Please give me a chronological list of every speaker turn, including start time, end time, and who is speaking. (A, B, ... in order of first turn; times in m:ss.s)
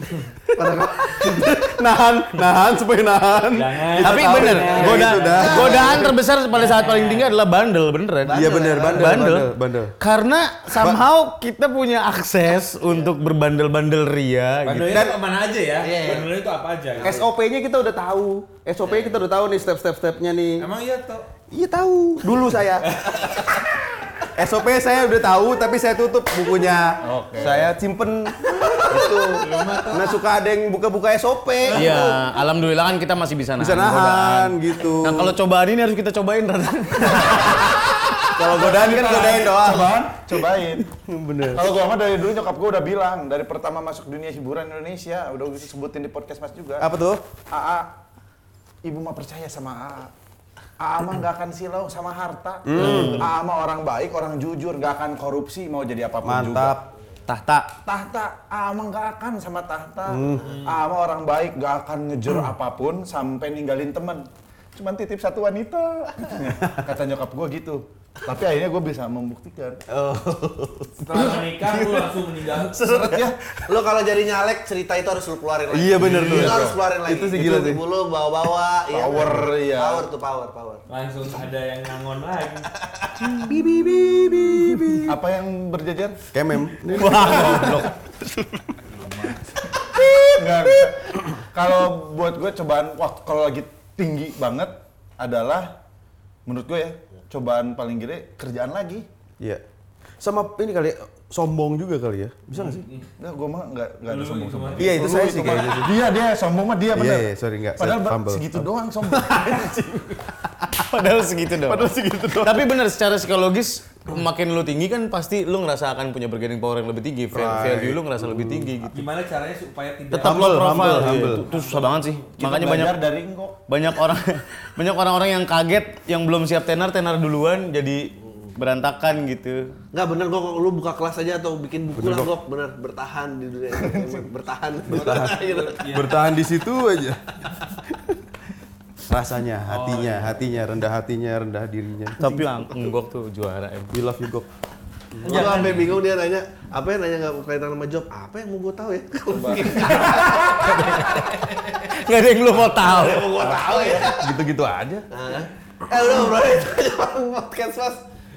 0:00.5-0:06.1 A
0:00.5-0:01.7 B
0:03.5-0:05.8 C
0:04.0-0:15.2 D
0:05.2-0:06.1 B
0:06.5-0:07.3 C
0:08.3-0:09.2 B
0:08.3-0:09.9 A
0:10.8-0:11.0 A
0:14.6-0:17.2 C
0:15.8-0:16.3 B
0:17.0-0:17.3 B
0:17.0-0:20.7 A
0:20.6-0:21.2 C
0:21.5-0:22.9 A
0:24.3-0:32.2 A
0:27.0-0:27.7 E
0:28.6-0:29.8 B
0:29.4-0:30.2 C
0:31.7-0:37.8 D
0:33.6-0:35.4 A
0:37.0-0:37.8 E
0:38.2-0:40.0 A
0:38.4-0:40.9 E
0:41.0-0:41.7 A
0:41.5-0:46.9 E
0:46.8-0:47.2 A
0:47.5-0:47.9 E
0:48.8-0:50.1 E
0:50.8-0:56.8 E
0:52.6-0:53.3 A
0:52.7-0:53.3 D
0:56.2-0:56.8 A
0:57.3-0:57.7 D
0:57.8-1:09.8 E
1:00.1-1:00.4 A
1:00.4-1:00.8 C
1:09.9-1:13.7 A
1:11.0-1:12.9 C
1:12.8-1:13.4 E
1:13.7-1:20.8 B
1:15.7-1:17.8 A
1:16.0-1:16.8 E
1:16.0-1:16.5 C
1:18.9-1:20.1 E
1:20.9-1:22.7 C
1:23.2-1:25.1 A
1:25.0-1:26.2 E
1:26.3-1:28.6 A
1:26.9-1:27.9 D
1:27.0-1:27.9 E
1:28.9-1:29.4 E
1:29.9-1:30.9 A
1:30.3-1:35.7 E
1:36.4-1:39.0 E
1:40.2-1:42.8 A
1:42.5-1:43.1 C
1:43.2-1:49.8 E
1:44.1-1:45.9 C
1:44.8-1:45.9 A
1:46.9-1:50.7 A
1:50.8-1:59.0 D
1:51.6-1:52.7 A
1:57.3-1:58.7 A
1:58.9-2:02.1 C
2:00.1-2:01.5 A
2:00.2-2:03.0 D
2:01.0-2:01.3 E
2:02.4-2:03.6 E
2:03.7-2:09.7 D
2:09.9-2:15.8 B
2:12.0-2:12.3 A
2:13.7-2:14.3 E
2:14.9-2:15.3 A
2:14.9-2:16.2 C
2:15.9-2:17.2 A
2:17.8-2:18.2 A
2:19.1-2:22.7 A
2:19.7-2:20.5 C
2:22.2-2:23.9 D
2:23.9-2:24.5 A
2:25.1-2:25.5 A
2:25.2-2:31.7 B
2:25.2-2:26.0 C
2:29.3-2:30.9 E
2:31.8-2:33.4 D
2:32.6-2:34.4 B
2:33.4-2:34.0 E
2:33.9-2:35.0 A
2:35.1-2:38.0 B